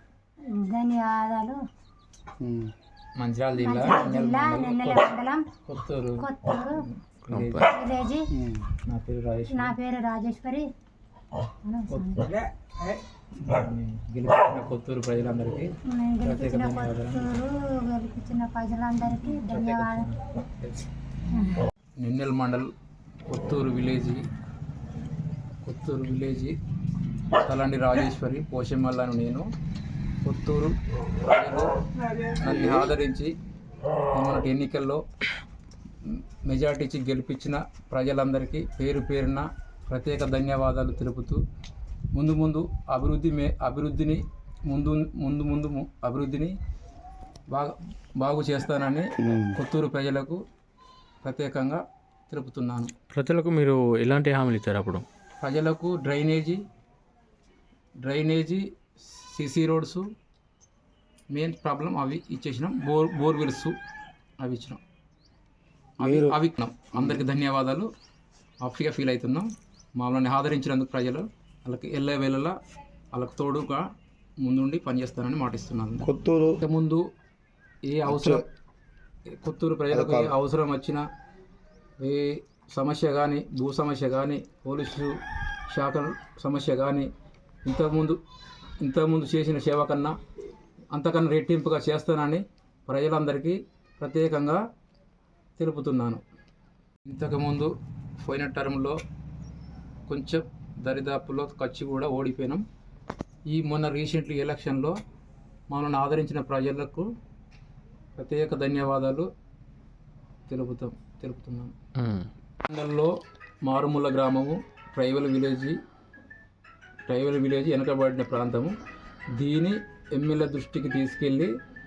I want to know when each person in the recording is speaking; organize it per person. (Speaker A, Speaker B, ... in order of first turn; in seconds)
Speaker A: 0.6-1.6, 3.6-5.5, 6.2-6.8, 7.7-8.3, 9.6-10.7, 11.7-12.4, 15.9-20.0, 21.3-21.6
Speaker B: 2.4-2.7, 8.3-8.6, 49.2-49.6, 66.0-66.4, 67.0-67.2, 76.0-76.6, 78.1-78.4, 79.9-80.3
Speaker C: 3.2-7.7, 8.9-9.7, 11.9-12.3, 13.4-15.7, 16.2-17.3, 19.1-20.8, 22.0-22.7, 23.3-24.2, 25.6-26.6, 27.4-29.5, 30.2-33.3, 34.1-35.0, 36.1-41.4, 42.1-46.5, 47.5-50.4, 51.2-52.9, 55.4-56.6, 58.0-60.0, 61.3-63.7, 64.4-64.8, 66.0-67.9, 68.6-72.5, 73.1-73.8, 74.4-76.1, 76.6-77.0, 77.9-78.5, 79.4-81.0, 82.0-85.1, 85.7-87.1, 87.7-88.2, 88.8-90.1, 90.9-94.6, 95.6-96.2, 97.0-99.0, 100.1-102.6, 103.5-105.0, 105.7-107.1, 108.2-109.3, 110.5-111.8, 112.7-115.8, 117.1-118.7, 119.4-121.5
Speaker D: 7.3-7.7, 53.1-55.0, 112.0-112.3